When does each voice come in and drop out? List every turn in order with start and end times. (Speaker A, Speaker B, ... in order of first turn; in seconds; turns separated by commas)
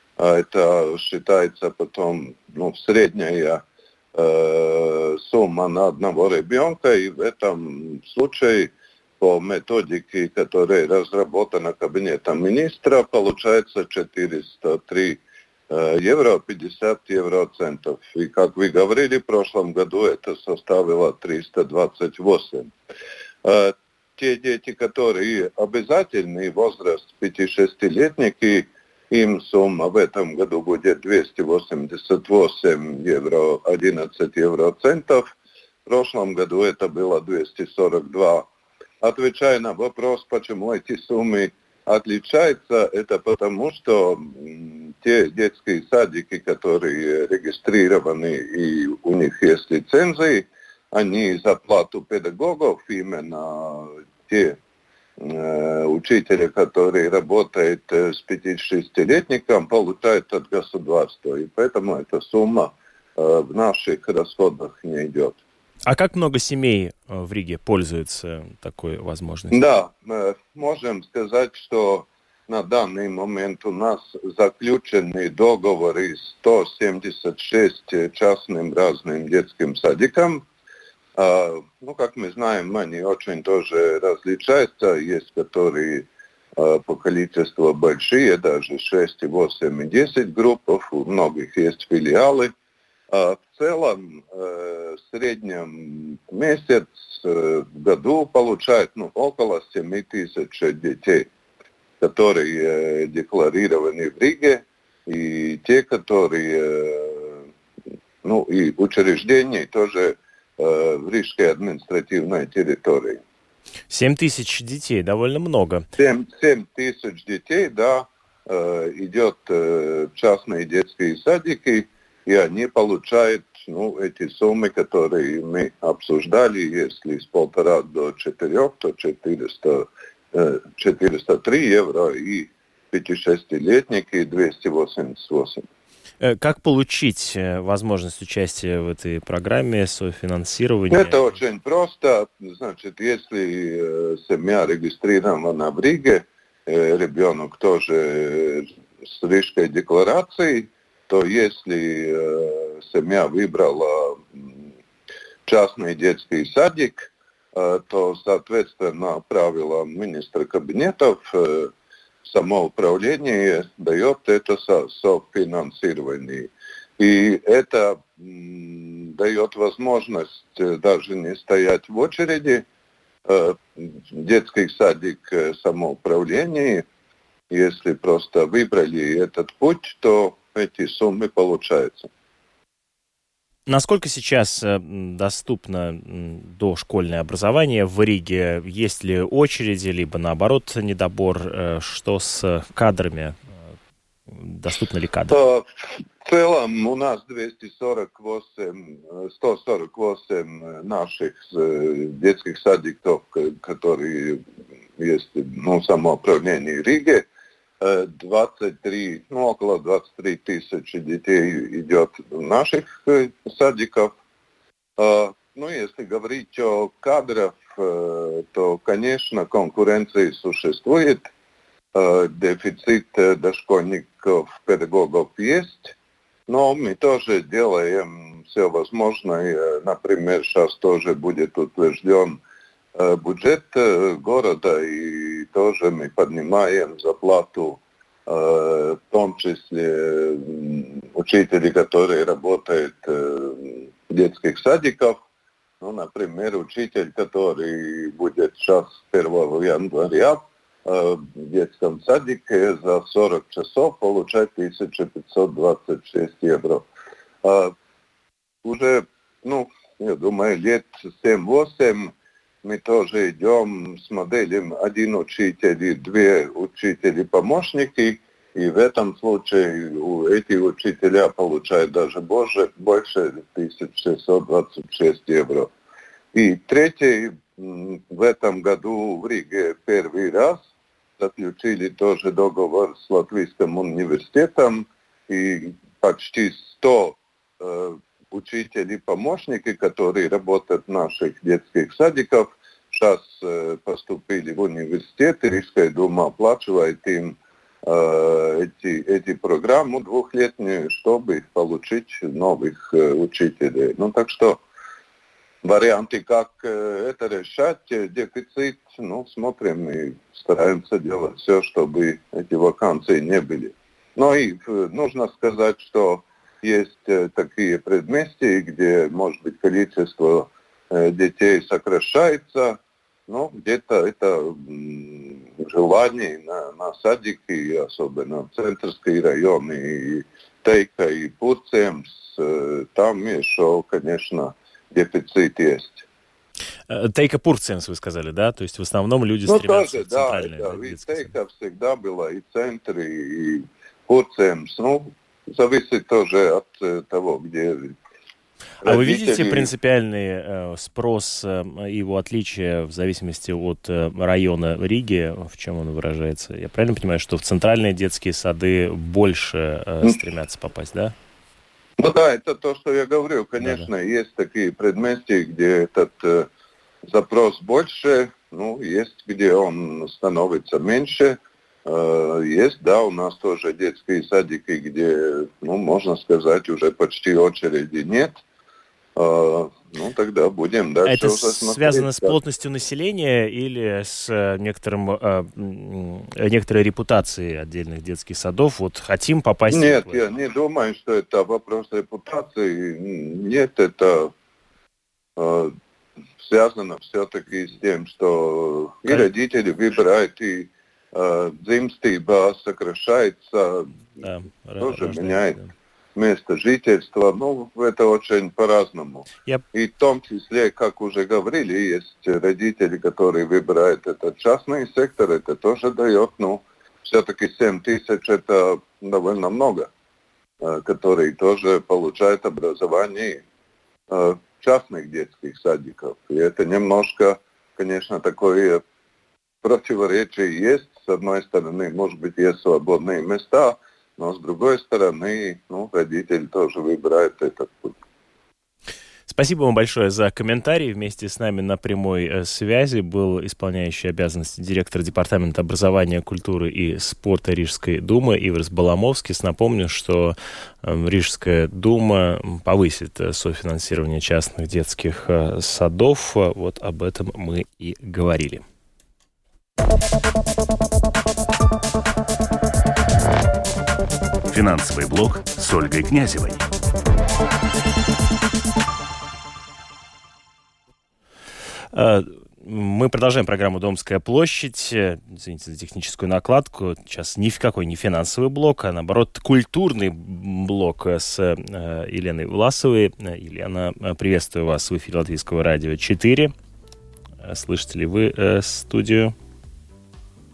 Speaker A: 0.2-3.6, Speaker A: 4.1-22.7, Speaker A: 23.4-35.3, Speaker A: 35.9-38.5, Speaker A: 39.0-54.6, Speaker A: 55.2-65.4, Speaker B: 65.8-69.6, Speaker A: 69.5-80.4, Speaker A: 81.2-92.5, Speaker A: 93.1-101.3, Speaker A: 102.0-107.4, Speaker A: 108.2-113.2, Speaker B: 113.9-115.8, Speaker A: 116.0-135.7, Speaker B: 136.2-141.1, Speaker A: 140.9-154.5, Speaker A: 155.4-161.7, Speaker A: 162.2-172.6, Speaker A: 173.2-176.8, Speaker A: 177.5-182.1, Speaker B: 183.7-193.4, Speaker B: 194.3-195.3, Speaker A: 195.3-195.7, Speaker A: 196.2-204.4, Speaker A: 205.0-207.2, Speaker A: 207.8-214.1, Speaker A: 215.0-221.3, Speaker A: 221.9-225.9, Speaker A: 226.5-232.4, Speaker A: 232.9-245.2, Speaker A: 245.8-256.9, Speaker A: 257.4-257.7, Speaker A: 258.6-275.7, Speaker A: 276.3-280.6, Speaker A: 281.2-304.6, Speaker A: 305.6-336.0, Speaker B: 336.9-341.3, Speaker A: 339.5-347.9, Speaker A: 348.8-349.7, Speaker B: 348.8-361.1, Speaker A: 362.0-366.5, Speaker B: 363.6-363.9, Speaker A: 367.1-378.4, Speaker A: 379.1-382.3, Speaker B: 381.0-390.2, Speaker A: 389.7-394.3, Speaker A: 395.4-395.7, Speaker A: 396.4-404.0, Speaker B: 404.2-405.7, Speaker A: 404.8-405.6, Speaker A: 406.1-419.9, Speaker A: 420.6-423.4, Speaker A: 424.1-428.8, Speaker A: 429.6-438.0, Speaker B: 439.3-458.6, Speaker C: 464.5-466.6, Speaker B: 471.9-486.5, Speaker B: 487.4-489.3